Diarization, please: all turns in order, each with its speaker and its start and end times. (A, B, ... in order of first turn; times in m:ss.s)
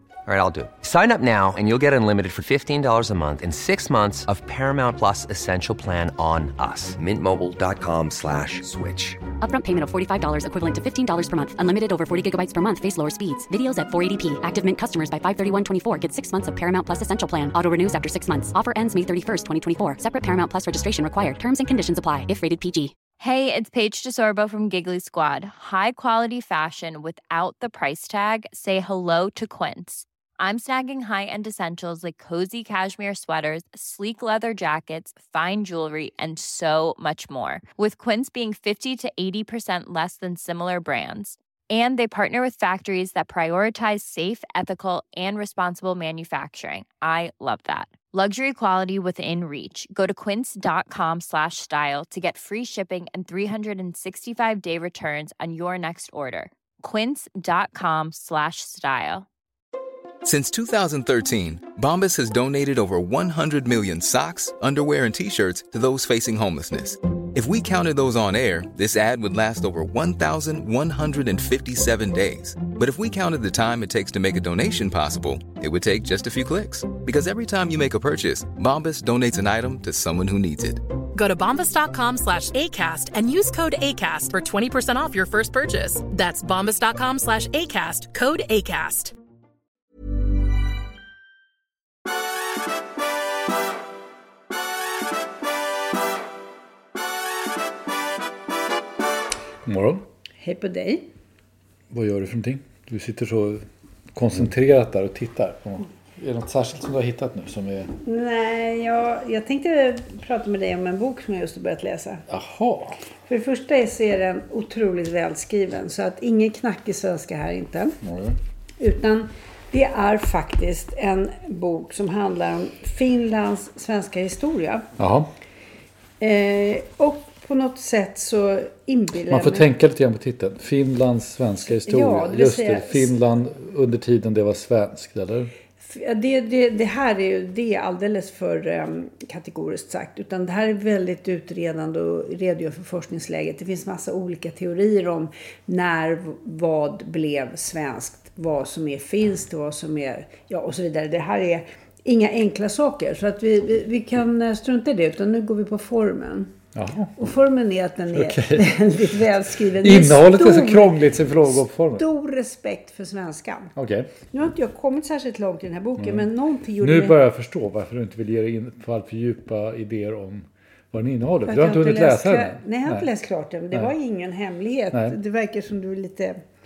0:00.2-0:09.2 A
0:09.4-0:22.9 B
0:23.2-0:59.2 C
1:00.2-1:20.8 D
1:21.1-1:29.1 E
1:39.6-1:40.0 F
1:40.4-1:41.1 G
1:41.9-1:47.9 F
1:48.0-1:52.2 G
1:52.3-1:53.0 F
1:53.2-1:58.0 G
1:58.0-1:58.4 F
1:58.8-2:04.9 G
2:05.0-2:05.3 F
2:06.2-2:09.7 G
2:09.3-2:15.5 F
2:11.7-2:13.1 G
2:15.8-2:36.5 G
2:36.7-2:37.1 F
2:37.2-2:43.7 G
2:38.1-2:42.0 F
2:43.8-2:44.1 F
2:44.3-2:47.2 G
2:46.0-2:46.2 F
2:46.8-2:53.1 F
2:51.4-2:56.4 G
2:54.9-2:55.2 F